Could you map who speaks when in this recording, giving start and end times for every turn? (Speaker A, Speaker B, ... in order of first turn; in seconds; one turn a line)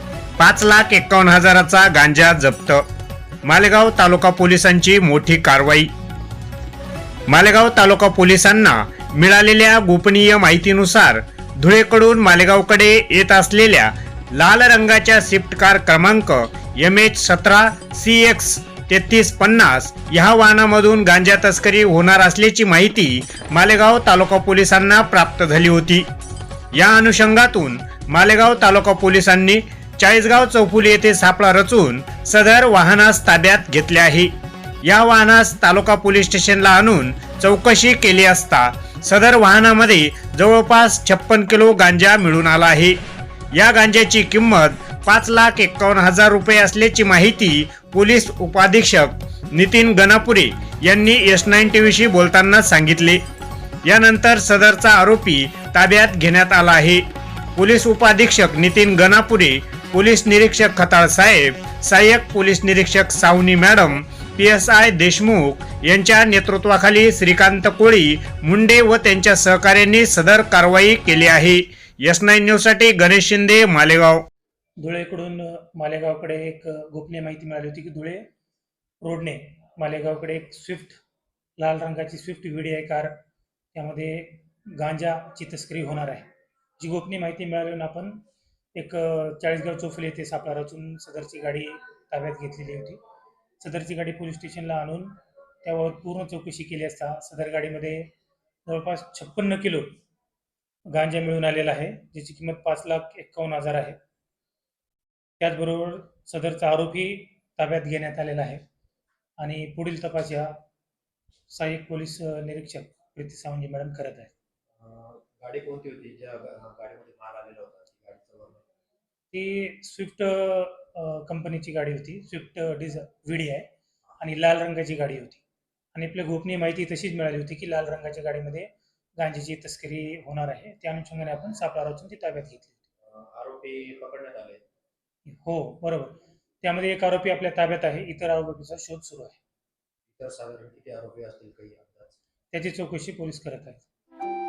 Speaker A: 0.4-2.8
Speaker A: 3.5-5.9
Speaker A: 7.3-26.1
Speaker A: 26.7-34.3
Speaker A: 34.8-43.0
Speaker A: 43.5-53.2
Speaker A: 53.9-57.0
Speaker A: 57.6-74.2
Speaker B: 74.8-78.3
Speaker B: 79.0-81.0
Speaker B: 81.6-83.2
Speaker B: 83.7-86.3
Speaker B: 86.8-88.2
Speaker B: 88.8-93.0
Speaker B: 93.6-98.1
Speaker B: 98.7-100.0
Speaker B: 100.9-104.0
Speaker B: 105.4-108.6
Speaker B: 109.4-110.6
Speaker B: 111.5-114.3
Speaker C: 114.8-118.6
Speaker B: 119.3-123.7
Speaker B: 124.2-125.4
Speaker B: 125.9-132.8
Speaker C: 133.0-134.6
Speaker B: 135.2-139.4
Speaker C: 140.1-142.2
Speaker B: 142.5-143.9